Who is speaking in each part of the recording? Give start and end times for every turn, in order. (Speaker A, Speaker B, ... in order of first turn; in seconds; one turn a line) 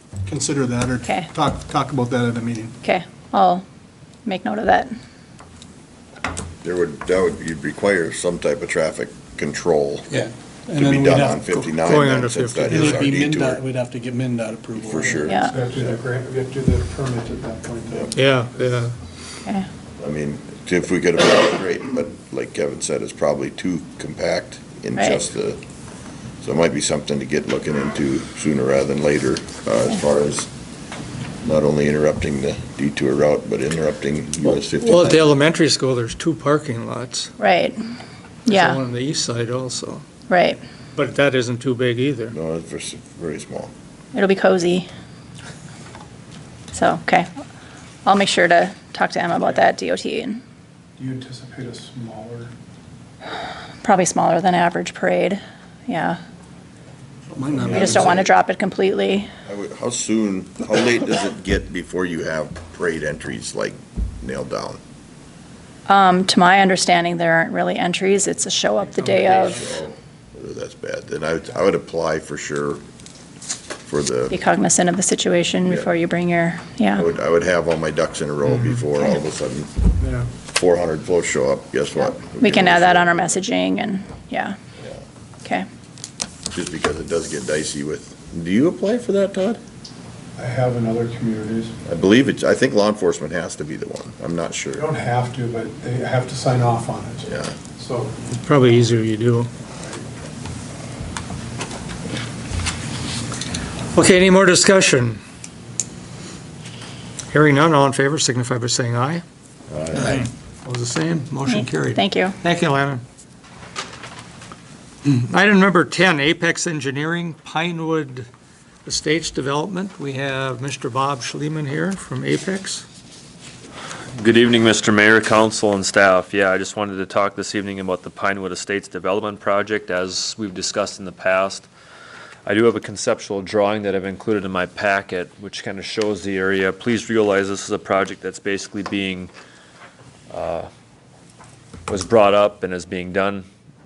Speaker A: 0.2-2.7
Speaker B: 2.8-3.6
Speaker B: 4.2-4.9
Speaker C: 6.6-10.1
Speaker A: 10.1-11.7
Speaker C: 10.8-13.6
Speaker D: 11.8-13.2
Speaker A: 12.7-15.3
Speaker C: 14.8-15.5
Speaker B: 15.3-15.5
Speaker E: 15.4-18.1
Speaker D: 18.1-18.9
Speaker C: 20.0-25.6
Speaker B: 25.0-25.2
Speaker C: 26.4-30.5
Speaker C: 31.4-35.3
Speaker D: 34.8-37.3
Speaker B: 37.4-37.8
Speaker D: 38.5-40.0
Speaker B: 38.5-38.8
Speaker B: 40.3-40.6
Speaker D: 40.9-42.3
Speaker C: 42.3-43.7
Speaker B: 44.1-44.9
Speaker B: 46.7-47.3
Speaker B: 48.0-50.4
Speaker E: 51.0-52.5
Speaker B: 53.8-56.2
Speaker A: 57.3-58.2
Speaker E: 57.7-58.1
Speaker B: 57.7-59.3
Speaker C: 59.5-64.8
Speaker B: 65.9-69.6
Speaker C: 69.0-72.8
Speaker C: 73.8-74.4
Speaker B: 74.3-77.0
Speaker C: 75.7-75.9
Speaker C: 77.0-79.7
Speaker E: 80.0-80.3
Speaker C: 80.4-83.4
Speaker B: 82.0-84.6
Speaker C: 86.5-89.6
Speaker E: 90.4-91.7
Speaker C: 91.8-94.8
Speaker E: 94.8-98.1
Speaker C: 97.2-97.5
Speaker D: 98.3-99.5
Speaker D: 103.9-105.2
Speaker D: 107.3-109.2
Speaker C: 109.7-110.2
Speaker D: 109.9-113.0
Speaker B: 111.5-112.4
Speaker D: 115.0-118.3
Speaker D: 118.8-122.8
Speaker F: 124.1-131.7
Speaker F: 132.4-139.3
Speaker F: 140.3-140.7
Speaker F: 141.9-143.4